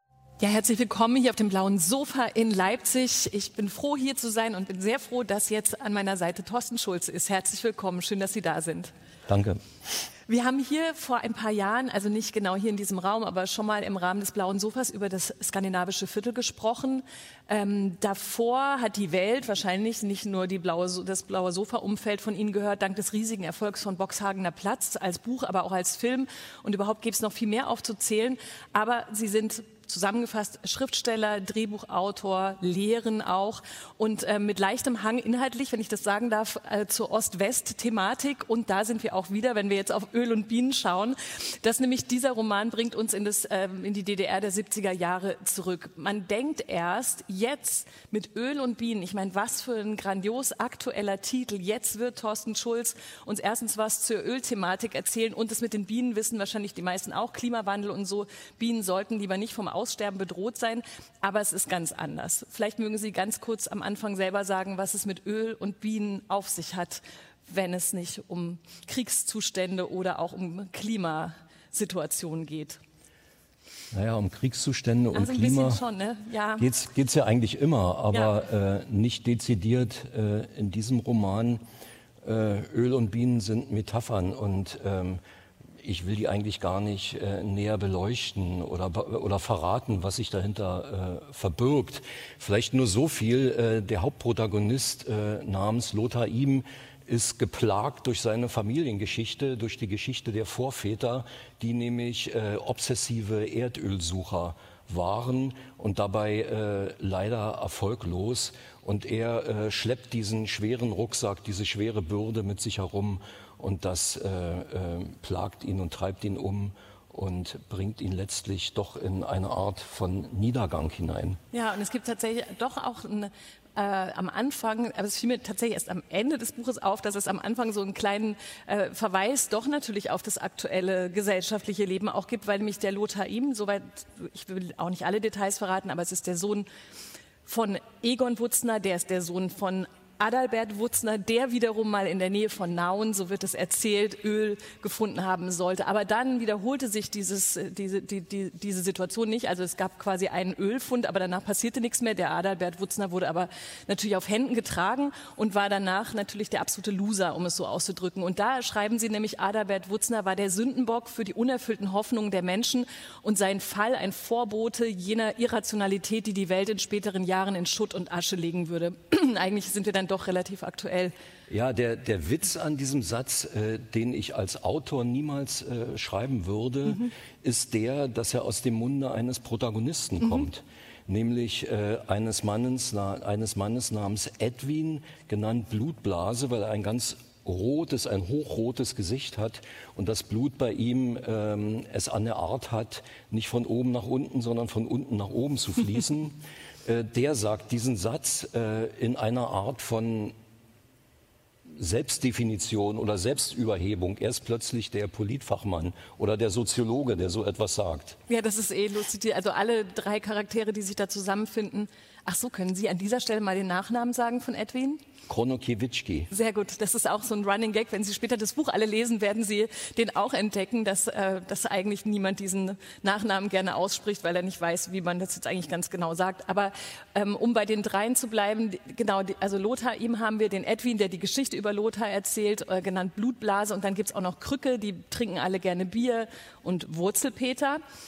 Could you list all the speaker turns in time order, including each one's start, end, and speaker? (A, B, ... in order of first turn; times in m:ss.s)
0:00.4-0:08.9 A
0:09.3-0:09.6 B
0:10.3-1:12.8 A
1:13.9-1:15.8 B
1:15.1-1:16.7 A
1:16.6-1:21.6 B
1:18.1-1:18.4 A
1:22.2-1:25.2 B
1:25.8-2:01.4 B
2:01.5-2:16.7 A
2:17.4-2:51.1 A
2:51.5-3:20.3 B
3:00.2-3:00.5 A
3:21.8-3:28.2 B
3:28.3-3:35.0 A
3:35.3-3:36.3 B
3:36.3-3:57.8 A